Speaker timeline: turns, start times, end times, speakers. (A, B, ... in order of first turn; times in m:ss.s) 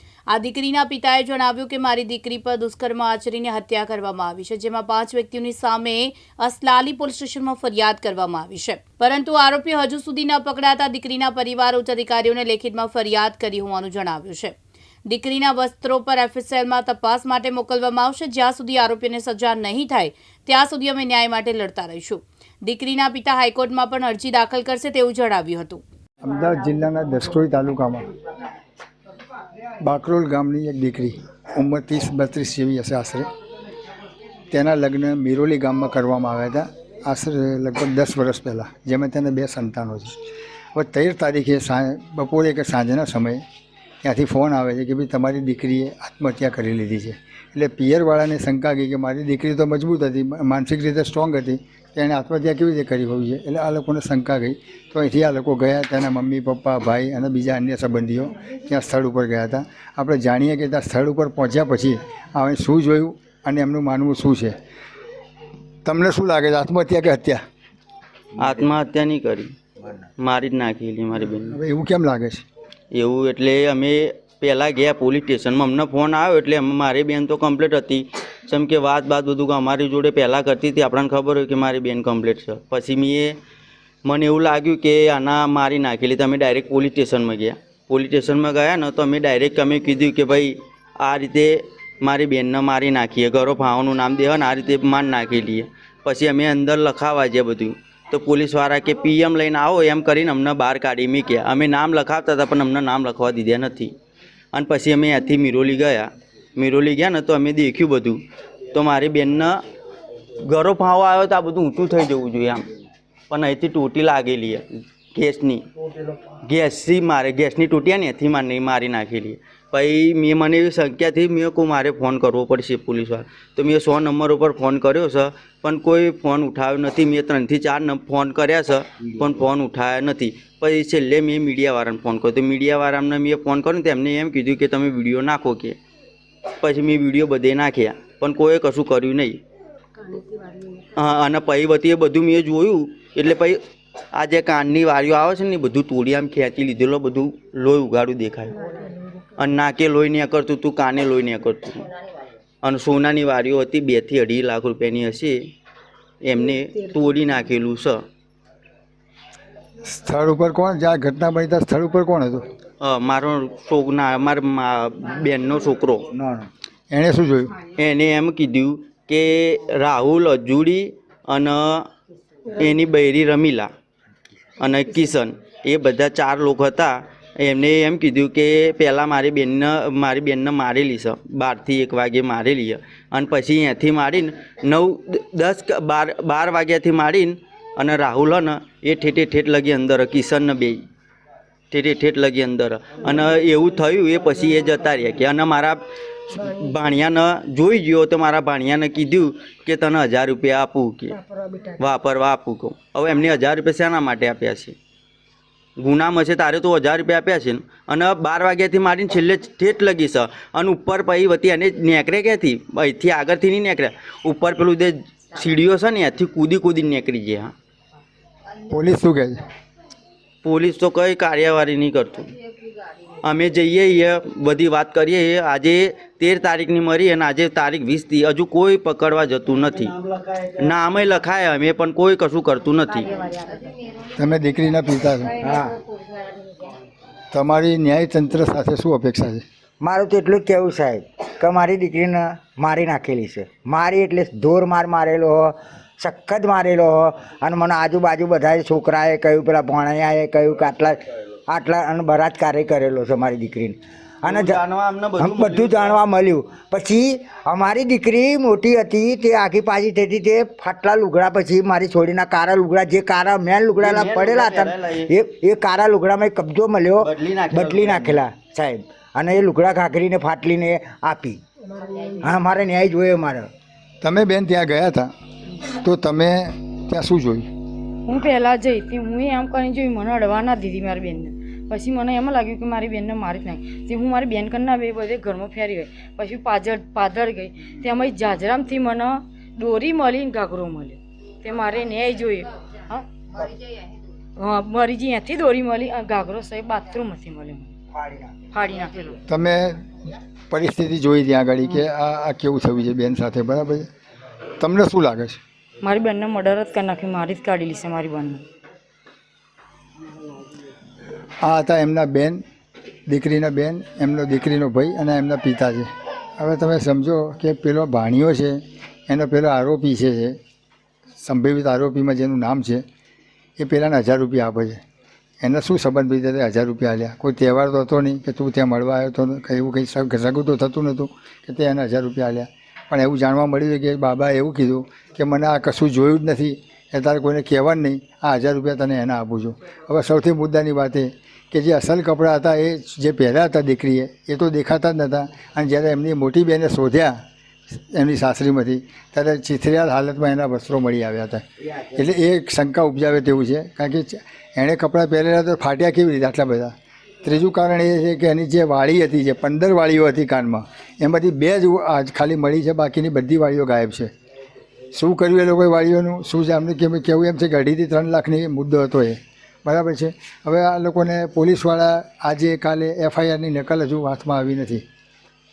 0:00.3-0:14.6 A
0:15.1-0:25.8 A
0:26.2-0:28.1 B
0:29.8-0:33.3 B
0:34.5-0:40.2 B
0:40.7-0:43.4 B
0:44.0-1:04.6 B
1:05.8-1:07.4 B
1:08.4-1:09.5 C
1:10.2-1:11.6 C
1:11.5-1:12.4 B
1:12.9-1:23.4 C
1:24.0-1:44.0 C
1:44.5-1:49.6 C
1:50.4-1:52.7 C
1:53.3-1:55.6 C
1:56.4-2:15.8 C
2:16.6-2:19.4 C
2:20.9-2:23.6 C
2:24.1-2:28.6 C
2:29.4-2:31.9 C
2:32.6-2:35.5 C
2:36.2-2:38.0 C
2:39.8-2:42.4 B
2:42.8-2:46.1 C
2:46.2-2:46.5 D
2:46.9-2:47.6 B
2:47.8-2:51.9 C
2:52.5-2:53.7 C
2:54.6-3:10.8 C
3:11.7-3:24.8 C
3:25.8-3:37.5 C
3:38.6-3:39.4 B
3:40.4-3:42.3 C
3:43.2-3:53.2 C
3:54.1-3:55.5 B
3:55.4-3:55.8 D
3:57.3-3:59.4 B
3:59.8-4:14.6 D
4:14.2-4:16.0 C
4:15.2-4:31.4 D
4:23.8-4:25.1 C
4:27.0-4:28.2 C
4:32.1-4:33.5 D
4:34.0-4:35.1 B
4:35.6-4:37.5 B
4:38.0-4:53.4 E
4:54.4-4:57.7 E
4:58.0-4:58.5 D
4:58.5-4:59.2 E
4:59.3-5:00.0 B
5:00.5-5:03.9 B
5:04.6-5:05.4 B
5:05.8-5:08.4 E
5:11.4-5:12.4 B
5:13.1-5:20.4 B
5:21.2-5:22.8 B
5:23.6-5:24.8 B
5:25.4-5:47.2 B
5:47.7-5:51.4 B
5:52.0-6:04.1 B
6:04.9-6:14.8 B